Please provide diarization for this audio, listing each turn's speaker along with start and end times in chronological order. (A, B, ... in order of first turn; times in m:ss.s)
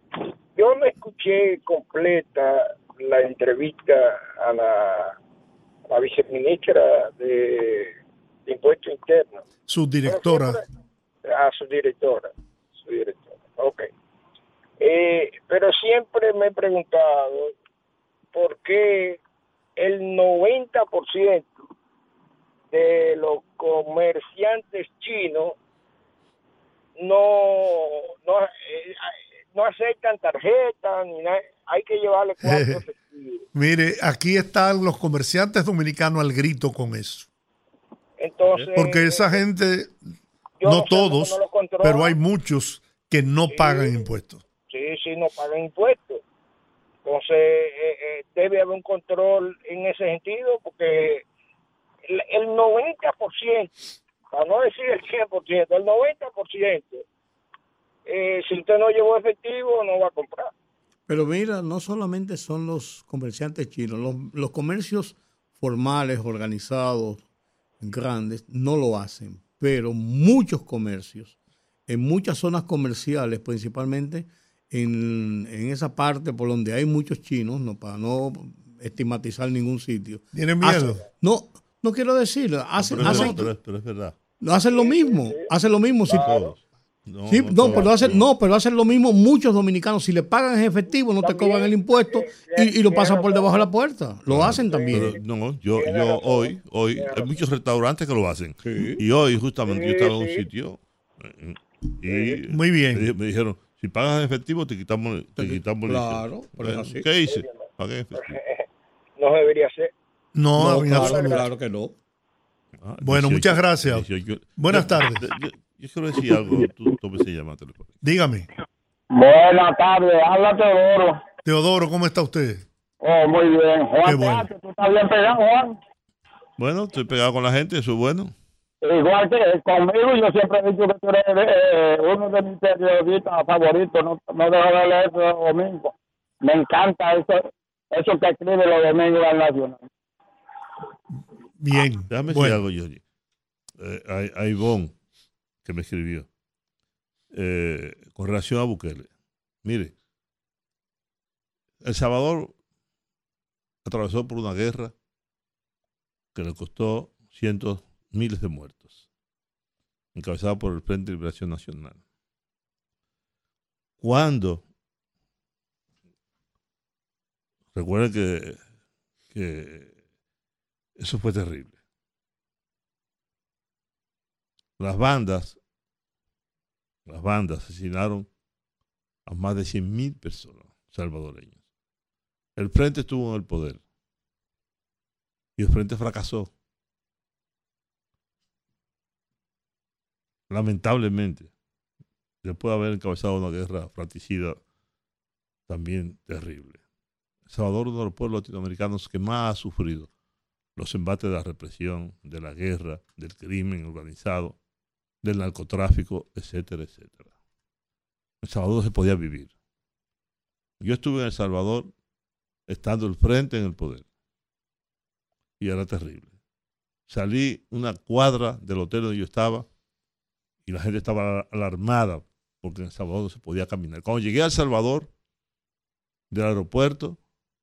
0:00.6-0:05.1 A
0:05.9-0:07.9 A
0:08.5-0:09.4 A
0:09.7-0:10.6 B
0:10.0-0:10.6 A
0:11.2-0:12.3 A
0:12.8-0:13.9 A
0:14.8-0:17.5 A
0:18.3-0:19.2 A
0:19.8-0:21.5 A
0:22.7-0:25.5 A
0:27.0-0:29.0 A
0:29.5-0:33.4 A
0:32.4-0:32.8 B
0:33.5-0:37.3 B
0:38.2-0:39.4 A
0:38.7-0:40.0 B
0:40.6-0:44.4 B
0:40.6-0:42.1 A
0:43.5-0:43.9 A
0:44.7-0:46.2 A
0:47.0-0:51.2 A
0:52.1-0:53.7 A
0:54.3-0:57.0 A
0:58.1-1:00.5 A
1:01.1-1:07.2 C
1:07.8-1:11.3 C
1:11.9-1:23.5 C
1:20.3-1:21.0 B
1:22.8-1:24.2 D
1:23.0-1:23.3 B
1:24.4-1:26.5 C
1:24.7-1:25.4 A
1:26.1-1:26.5 A
1:27.0-1:28.3 D
1:27.3-1:35.1 C
1:31.2-1:33.6 A
1:34.3-1:48.4 D
1:34.7-1:35.1 A
1:35.7-1:37.3 A
1:38.6-1:39.0 C
1:39.7-1:40.4 A
1:42.1-1:42.4 A
1:42.5-1:43.1 B
1:45.4-1:47.1 C
1:47.3-1:47.6 A
1:48.2-1:48.6 A
1:49.2-1:49.9 A
1:50.3-1:51.4 B
1:50.6-1:51.9 C
1:50.9-1:51.4 A
1:52.8-1:57.9 D
1:53.0-1:55.3 B
1:58.0-1:58.5 B
1:59.1-2:01.2 E
2:01.4-2:02.6 B
2:03.0-2:05.8 E
2:04.0-2:04.5 B
2:06.6-2:08.3 D
2:08.8-2:19.8 E
2:21.6-2:22.6 B
2:22.1-2:23.0 D
2:23.8-2:24.9 D
2:25.6-2:26.3 D
2:27.3-2:29.1 D
2:29.6-2:29.9 D
2:31.8-2:32.5 D
2:33.8-2:34.9 D
2:36.3-2:39.0 D
2:40.1-2:42.0 D
2:44.0-2:44.6 D
2:47.7-2:48.6 D
2:49.3-2:49.9 D
2:51.0-2:51.7 D
2:54.8-2:55.6 D
2:57.1-2:58.3 D
2:59.3-3:01.6 D
3:02.6-3:03.8 D
3:05.6-3:06.5 D
3:10.5-3:11.5 D
3:12.4-3:14.6 D
3:15.7-3:16.8 D
3:17.5-3:20.1 D
3:20.8-3:24.6 D
3:25.2-3:27.3 D
3:28.4-3:29.5 D
3:30.8-3:31.9 D
3:32.7-3:34.0 D
3:35.6-3:36.3 D
3:37.1-3:39.7 D
3:40.6-3:45.1 D
3:46.3-3:47.2 D